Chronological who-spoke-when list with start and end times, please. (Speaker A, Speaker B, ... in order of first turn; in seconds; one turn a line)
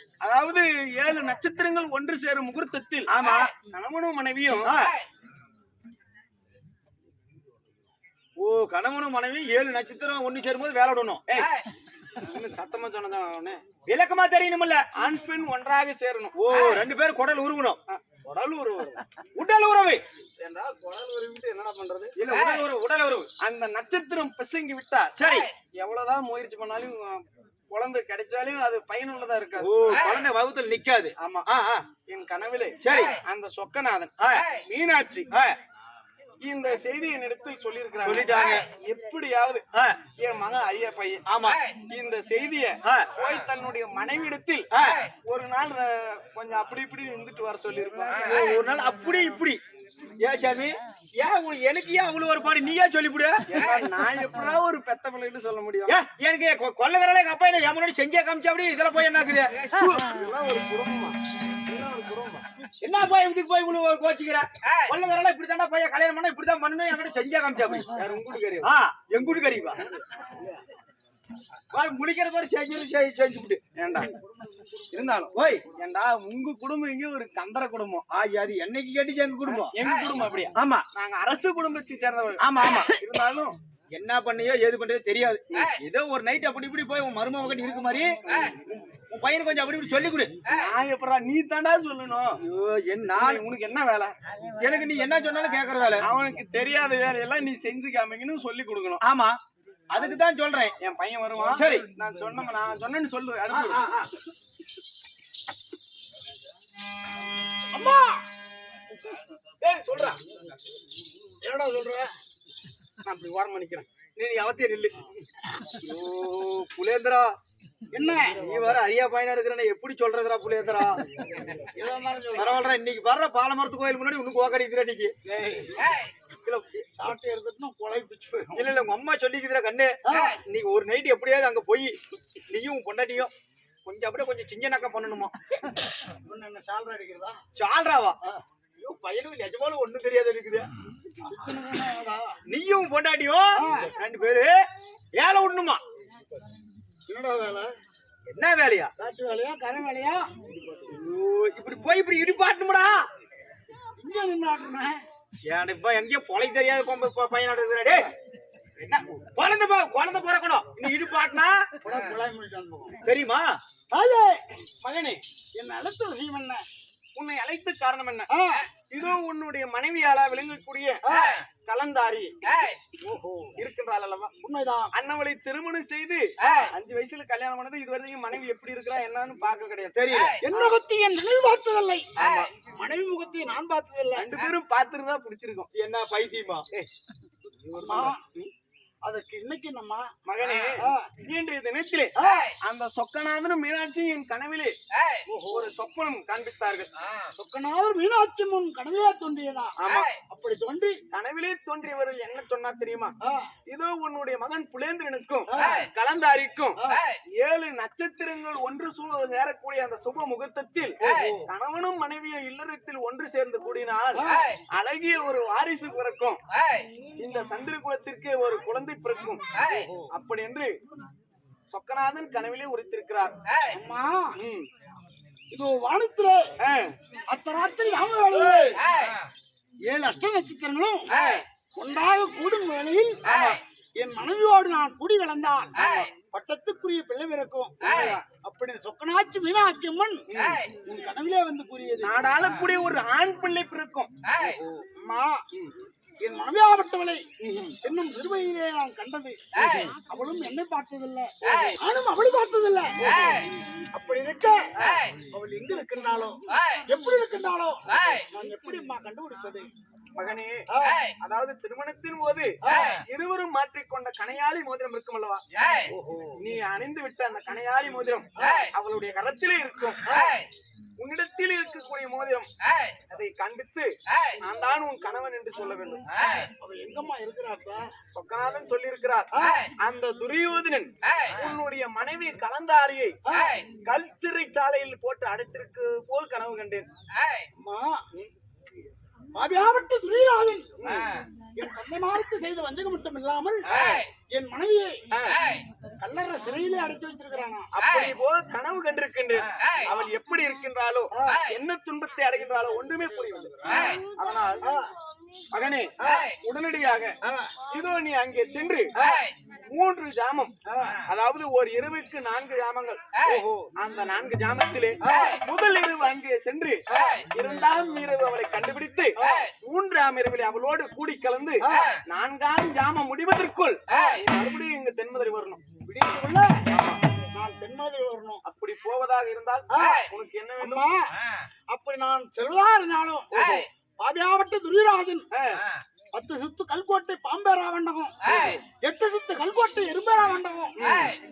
Speaker A: 0.2-4.8
Speaker B: 3.1-3.5
Speaker B: 4.6-5.0
Speaker B: 8.4-11.2
Speaker A: 12.2-13.6
Speaker B: 13.9-14.8
Speaker A: 14.9-16.4
Speaker B: 16.4-17.8
Speaker A: 17.9-19.0
Speaker B: 19.4-20.0
Speaker A: 20.4-22.1
Speaker B: 22.2-23.3
Speaker A: 23.4-25.1
Speaker B: 25.2-25.5
Speaker A: 25.7-29.7
Speaker B: 29.6-31.9
Speaker A: 31.2-31.5
Speaker A: 32.1-35.3
Speaker B: 32.8-33.1
Speaker B: 34.2-34.5
Speaker B: 35.3-35.6
Speaker A: 36.4-39.6
Speaker B: 38.0-38.6
Speaker A: 40.2-41.2
Speaker B: 41.3-41.6
Speaker A: 41.9-44.7
Speaker B: 44.7-45.0
Speaker A: 45.2-48.4
Speaker B: 48.2-49.6
Speaker B: 50.2-53.9
Speaker A: 53.5-55.9
Speaker B: 55.9-59.5
Speaker A: 59.7-61.2
Speaker A: 61.7-62.4
Speaker B: 62.8-67.9
Speaker A: 67.9-68.7
Speaker B: 68.6-69.8
Speaker B: 71.7-73.6
Speaker A: 73.8-74.1
Speaker C: 74.0-75.3
Speaker A: 74.9-78.0
Speaker B: 75.3-75.6
Speaker B: 78.1-79.7
Speaker A: 79.7-83.6
Speaker B: 80.6-80.8
Speaker B: 82.4-82.9
Speaker B: 84.0-90.3
Speaker A: 90.5-92.4
Speaker B: 92.4-93.4
Speaker A: 93.2-94.1
Speaker B: 94.6-96.0
Speaker A: 96.0-99.0
Speaker B: 99.0-99.4
Speaker B: 99.9-100.8
Speaker A: 100.8-103.8
Speaker B: 101.5-101.9
Speaker B: 103.5-104.1
Speaker C: 107.7-108.2
Speaker A: 109.6-110.2
Speaker C: 111.4-112.1
Speaker A: 113.0-113.9
Speaker B: 114.2-115.0
Speaker B: 115.7-117.4
Speaker C: 117.9-118.4
Speaker B: 118.3-121.0
Speaker C: 121.8-122.7
Speaker B: 122.4-125.1
Speaker C: 125.2-126.0
Speaker B: 126.3-126.8
Speaker C: 126.9-128.8
Speaker B: 128.5-132.0
Speaker B: 132.5-133.3
Speaker B: 133.9-135.3
Speaker C: 136.2-137.4
Speaker B: 137.6-138.2
Speaker B: 138.8-140.7
Speaker C: 141.3-142.4
Speaker B: 142.5-144.5
Speaker C: 143.6-143.9
Speaker B: 145.2-145.8
Speaker C: 147.1-147.7
Speaker B: 148.3-148.9
Speaker C: 149.0-150.3
Speaker B: 150.9-153.1
Speaker C: 154.0-155.0
Speaker B: 155.5-158.1
Speaker B: 158.8-161.8
Speaker C: 161.8-163.0
Speaker B: 163.0-163.6
Speaker C: 163.9-164.4
Speaker A: 164.8-165.2
Speaker C: 165.6-166.6
Speaker A: 167.2-168.3
Speaker C: 168.3-168.7
Speaker A: 168.9-172.5
Speaker C: 171.1-171.4
Speaker C: 173.0-173.6
Speaker A: 173.6-174.3
Speaker C: 174.4-174.9
Speaker A: 174.9-180.0
Speaker B: 179.9-180.3
Speaker C: 180.4-184.3
Speaker A: 182.2-182.5
Speaker A: 184.2-185.7
Speaker B: 185.7-186.7
Speaker A: 187.8-188.1
Speaker C: 187.8-188.3
Speaker C: 189.1-190.1
Speaker A: 190.3-194.8
Speaker C: 190.8-191.1
Speaker C: 195.3-195.7
Speaker A: 195.5-196.9
Speaker C: 197.4-199.8
Speaker A: 199.8-200.1
Speaker C: 200.3-201.0
Speaker A: 201.1-203.1
Speaker C: 203.2-203.5
Speaker A: 203.7-216.4
Speaker C: 205.5-205.9
Speaker C: 211.0-211.5
Speaker C: 214.2-214.5
Speaker A: 217.2-219.4
Speaker C: 219.7-220.1
Speaker A: 220.1-220.7
Speaker A: 221.7-223.4
Speaker C: 223.7-224.3
Speaker A: 224.4-224.7
Speaker C: 225.5-226.5
Speaker A: 226.6-226.9
Speaker C: 227.3-228.8
Speaker C: 229.9-231.1
Speaker C: 231.8-233.2
Speaker A: 233.3-233.6
Speaker C: 234.0-240.2
Speaker A: 237.8-238.2
Speaker A: 240.3-240.6
Speaker C: 240.8-242.2
Speaker A: 242.0-244.1
Speaker C: 244.5-245.4
Speaker C: 246.2-247.2
Speaker A: 247.4-247.8
Speaker C: 247.8-254.6
Speaker A: 251.5-251.7
Speaker A: 254.8-255.1
Speaker C: 255.3-259.7
Speaker A: 260.2-260.6
Speaker C: 260.7-261.0
Speaker A: 261.2-265.4
Speaker C: 262.7-262.9
Speaker C: 265.9-266.4
Speaker A: 266.4-270.2
Speaker C: 268.4-268.7
Speaker C: 270.1-270.4
Speaker A: 271.0-272.5
Speaker A: 273.1-276.5
Speaker C: 276.6-277.8
Speaker A: 278.1-283.2
Speaker C: 279.3-279.6
Speaker C: 283.2-283.6
Speaker A: 283.9-286.9
Speaker C: 287.6-288.1
Speaker C: 289.3-290.7
Speaker A: 290.8-291.2
Speaker C: 291.6-293.7
Speaker A: 293.7-294.0
Speaker C: 294.3-295.0
Speaker C: 296.0-297.7
Speaker A: 297.7-304.6
Speaker C: 301.1-301.4
Speaker C: 304.6-304.9
Speaker A: 305.5-307.1
Speaker A: 307.7-308.9
Speaker A: 309.7-310.5
Speaker C: 310.7-310.9
Speaker A: 311.1-313.0
Speaker B: 313.2-313.6
Speaker A: 313.8-325.6
Speaker C: 315.0-315.3
Speaker C: 319.2-319.5
Speaker C: 321.6-321.9
Speaker C: 325.9-326.6
Speaker A: 326.7-327.0
Speaker C: 327.3-328.4
Speaker A: 328.4-330.9
Speaker C: 329.7-330.1
Speaker C: 330.6-331.1
Speaker C: 331.7-333.5
Speaker A: 333.3-333.7
Speaker C: 334.0-335.3
Speaker A: 335.3-335.6
Speaker C: 336.1-338.2
Speaker A: 338.2-338.6
Speaker C: 338.8-340.9
Speaker A: 340.8-341.1